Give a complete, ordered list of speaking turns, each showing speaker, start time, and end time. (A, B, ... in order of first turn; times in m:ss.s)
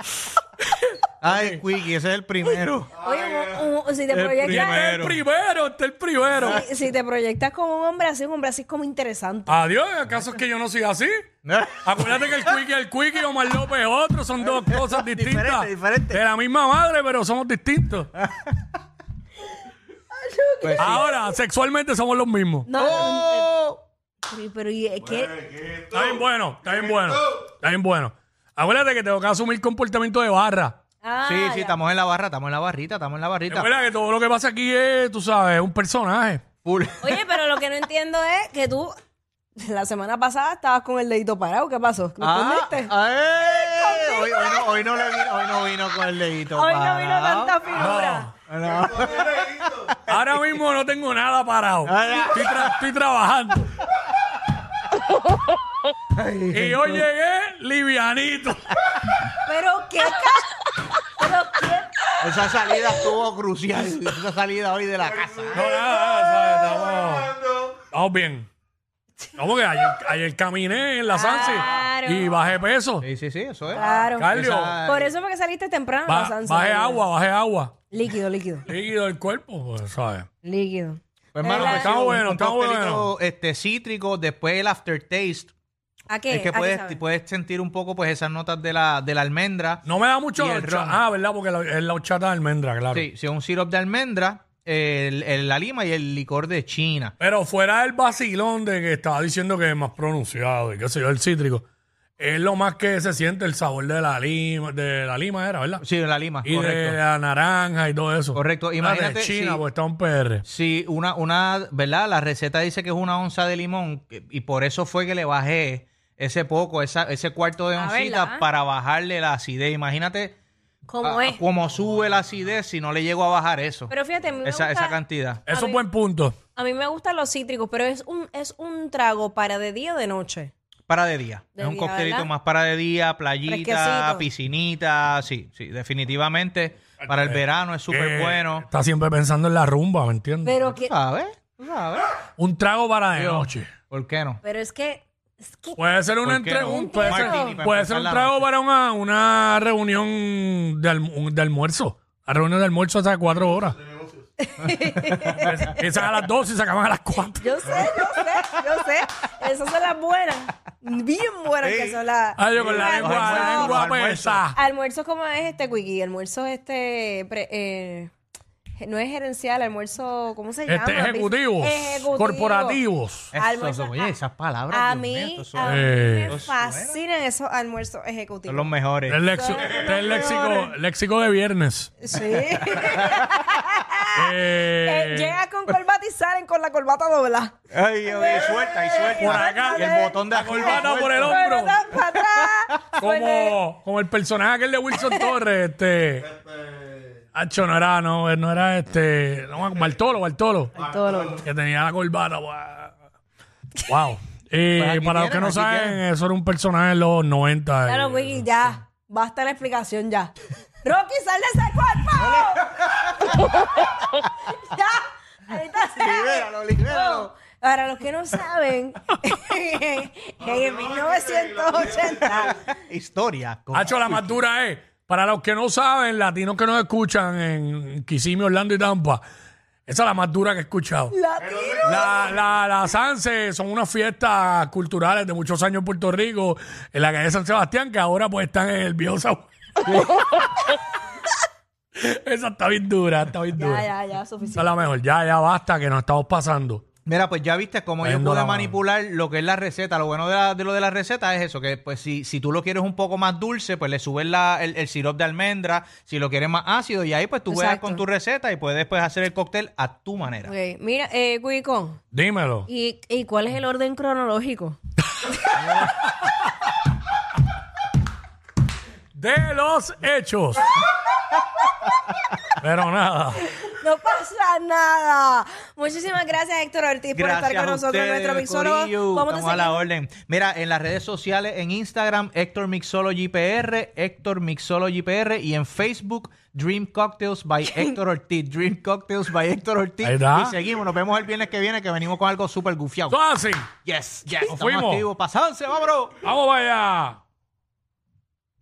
0:01.2-0:02.9 A
0:01.3-0:01.6 B
0:03.0-0:04.8 C
0:04.1-0:05.2 A
0:04.4-0:06.6 B
0:06.4-0:09.6 C
0:09.5-0:11.1 B
0:11.4-0:12.6 A
0:11.8-0:18.1 B
0:14.4-0:16.2 A
0:18.2-0:18.5 A
0:20.1-0:21.1 C
0:20.6-0:21.0 A
0:20.8-0:22.7 B
0:22.7-0:23.5 C
0:22.8-0:23.8 A
0:24.3-0:25.6 C
0:25.9-0:30.8 B
0:31.0-0:31.8 C
0:31.2-0:33.7 A
0:33.5-0:36.4 B
0:36.6-0:37.2 A
0:37.0-0:38.9 C
0:39.6-0:42.9 C
0:42.2-0:47.9 A
0:43.4-0:44.8 C
0:46.5-0:48.3 C
0:47.7-0:48.3 B
0:48.5-0:50.0 A
0:50.0-0:53.7 B
0:51.8-0:52.8 A
0:56.1-0:57.0 A
0:56.5-0:58.8 B
0:59.4-1:02.2 C
1:02.2-1:05.7 A
1:05.5-1:07.4 B
1:07.9-1:08.5 B
1:09.4-1:13.1 B
1:11.1-1:12.4 C
1:13.0-1:15.1 A
1:13.8-1:14.3 C
1:14.2-1:14.8 B
1:14.8-1:17.0 C
1:16.1-1:17.8 B
1:17.9-1:18.7 C
1:18.7-1:20.2 B
1:20.4-1:22.1 C
1:21.3-1:25.5 A
1:21.5-1:23.1 B
1:26.1-1:27.0 C
1:26.3-1:29.8 A
1:29.8-1:33.1 B
1:30.4-1:31.0 A
1:32.9-1:37.1 A
1:37.2-1:41.6 B
1:42.2-1:45.8 B
1:45.8-1:47.0 A
1:46.4-1:50.4 B
1:48.3-1:49.6 A
1:50.4-2:00.4 A
1:57.8-1:58.4 C
2:00.9-2:01.4 C
2:01.0-2:03.9 A
2:03.9-2:05.0 C
2:04.4-2:05.4 A
2:05.5-2:06.4 B
2:05.5-2:05.8 C
2:06.5-2:10.5 C
2:10.9-2:18.6 A
2:11.6-2:12.3 C
2:13.5-2:14.2 C
2:17.0-2:20.6 B
2:20.4-2:20.9 C
2:20.6-2:22.2 A
2:22.4-2:23.7 B
2:23.1-2:24.4 A
2:24.4-2:25.8 C
2:25.8-2:33.8 B
2:26.2-2:28.4 A
2:26.6-2:27.6 C
2:34.4-2:35.7 C
2:35.0-2:35.6 A
2:35.4-2:37.7 B
2:37.4-2:43.8 C
2:37.7-2:38.6 A
2:41.6-2:42.0 A
2:42.4-2:44.6 B
2:42.5-2:44.4 A
2:44.5-2:48.1 C
2:48.8-2:52.8 C
2:50.7-2:53.3 B
2:53.3-2:57.0 A
2:53.3-2:54.1 C
2:54.7-2:58.8 C
2:55.6-2:56.3 B
2:58.5-2:59.3 A
2:59.1-3:02.0 B
2:59.3-3:00.7 C
3:00.0-3:00.4 A
3:02.0-3:07.5 C
3:02.3-3:03.5 A
3:04.1-3:05.3 B
3:07.7-3:11.4 A
3:08.0-3:13.6 C
3:09.2-3:11.8 B
3:12.0-3:12.6 A
3:13.0-3:16.3 B
3:15.0-3:15.3 C
3:17.3-3:20.8 B
3:20.8-3:21.4 C
3:21.4-3:22.9 B
3:23.9-3:28.5 B
3:24.8-3:26.0 A
3:27.9-3:42.6 C
3:32.3-3:33.3 A
3:36.0-3:37.3 A
3:42.6-3:44.3 A
3:43.7-3:49.2 B
3:49.9-3:51.1 B
3:51.1-3:52.3 C
3:51.8-4:00.2 B
4:02.0-4:03.8 B
4:03.6-4:04.9 C
4:04.6-4:06.8 B
4:07.0-4:20.5 A
4:08.0-4:08.8 B
4:17.5-4:18.0 C
4:20.4-4:22.0 C
4:22.1-4:22.7 B
4:22.7-4:24.8 C
4:29.1-4:30.7 B
4:32.6-4:33.5 B
4:33.5-4:39.8 C
4:37.1-4:53.2 A
4:50.0-4:50.6 B
4:53.1-4:53.7 B
4:53.8-4:56.1 A
4:54.4-4:55.0 B
4:56.2-4:57.2 B